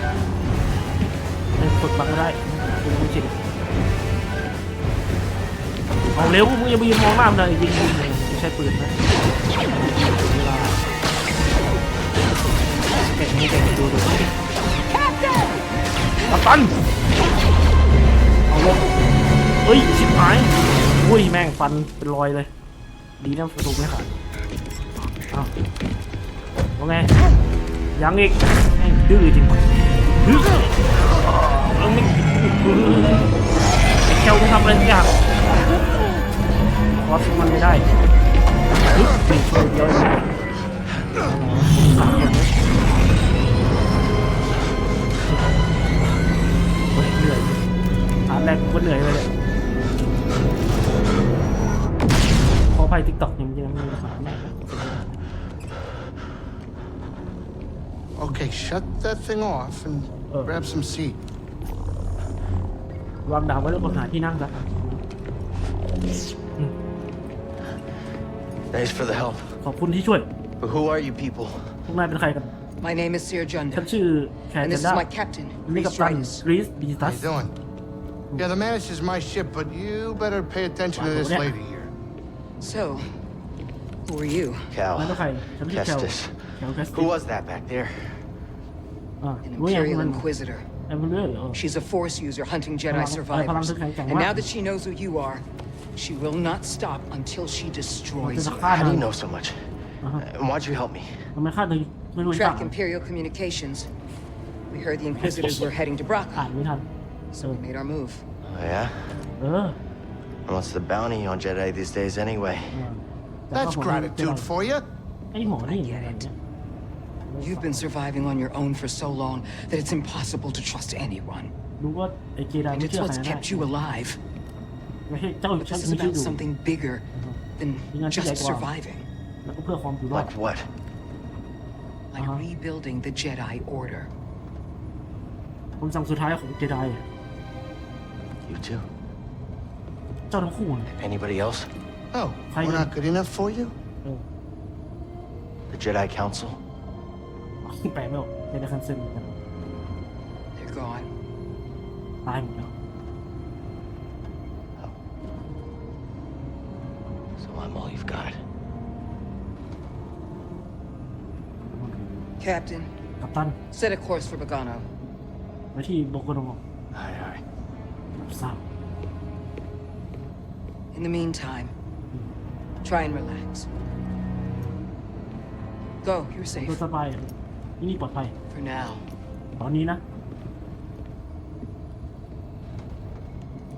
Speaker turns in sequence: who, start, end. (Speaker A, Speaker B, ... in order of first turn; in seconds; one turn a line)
Speaker A: 1.6-3.4
Speaker A: 6.1-8.9
Speaker A: 9.7-10.8
Speaker A: 12.9-14.3
Speaker A: 16.3-16.7
Speaker A: 18.5-19.0
Speaker A: 19.6-22.5
Speaker A: 23.2-24.1
Speaker A: 26.8-27.1
Speaker A: 27.9-33.3
Speaker A: 34.0-35.1
Speaker A: 36.9-37.9
Speaker A: 38.8-40.3
Speaker A: 41.2-42.5
Speaker A: 45.3-45.6
Speaker A: 46.9-47.6
Speaker A: 48.3-49.3
Speaker A: 52.6-55.1
Speaker B: 58.2-61.2
Speaker A: 63.2-65.0
Speaker C: 68.7-69.5
Speaker A: 69.6-70.3
Speaker C: 70.6-71.7
Speaker A: 71.9-72.5
Speaker D: 72.8-73.9
Speaker A: 73.7-75.0
Speaker D: 74.6-76.4
Speaker A: 75.7-77.3
Speaker B: 77.0-77.5
Speaker B: 78.4-81.9
Speaker A: 80.9-81.5
Speaker D: 82.6-83.1
Speaker D: 84.0-84.7
Speaker C: 84.7-88.2
Speaker A: 85.0-87.1
Speaker A: 89.2-90.2
Speaker D: 89.4-90.7
Speaker A: 90.9-91.6
Speaker D: 91.5-95.4
Speaker A: 92.9-94.5
Speaker D: 96.0-98.9
Speaker A: 98.2-99.1
Speaker C: 98.6-99.6
Speaker C: 100.2-101.1
Speaker A: 101.3-102.7
Speaker D: 102.3-103.9
Speaker D: 104.7-106.5
Speaker A: 105.1-105.7
Speaker A: 106.3-106.8
Speaker D: 107.3-108.2
Speaker C: 108.4-109.2
Speaker A: 109.4-109.8
Speaker C: 110.5-112.8
Speaker A: 112.7-114.5
Speaker B: 113.5-114.8
Speaker A: 115.3-116.3
Speaker D: 115.4-116.3
Speaker A: 117.3-117.9
Speaker D: 117.4-121.5
Speaker A: 121.8-123.7
Speaker D: 122.7-124.2
Speaker A: 125.1-126.4
Speaker D: 125.6-127.0
Speaker A: 127.1-127.4
Speaker D: 127.6-129.1
Speaker A: 127.9-128.7
Speaker A: 129.4-130.3
Speaker C: 130.1-130.7
Speaker D: 132.1-134.1
Speaker A: 132.2-132.4
Speaker A: 135.8-137.0
Speaker C: 138.5-138.9
Speaker A: 140.3-140.9
Speaker C: 140.9-141.7
Speaker B: 142.1-143.7
Speaker A: 142.5-142.9
Speaker C: 145.7-146.6
Speaker A: 147.6-149.3
Speaker D: 150.6-151.1
Speaker A: 152.2-152.7
Speaker C: 157.4-158.4
Speaker A: 161.7-162.3
Speaker D: 162.4-162.9
Speaker A: 163.2-163.6
Speaker D: 163.7-164.8
Speaker A: 165.7-166.6
Speaker C: 166.9-167.4
Speaker A: 168.2-168.6
Speaker D: 170.9-171.7
Speaker D: 172.8-173.7
Speaker D: 176.0-176.8
Speaker A: 176.5-178.3
Speaker D: 178.5-179.1
Speaker A: 179.6-180.0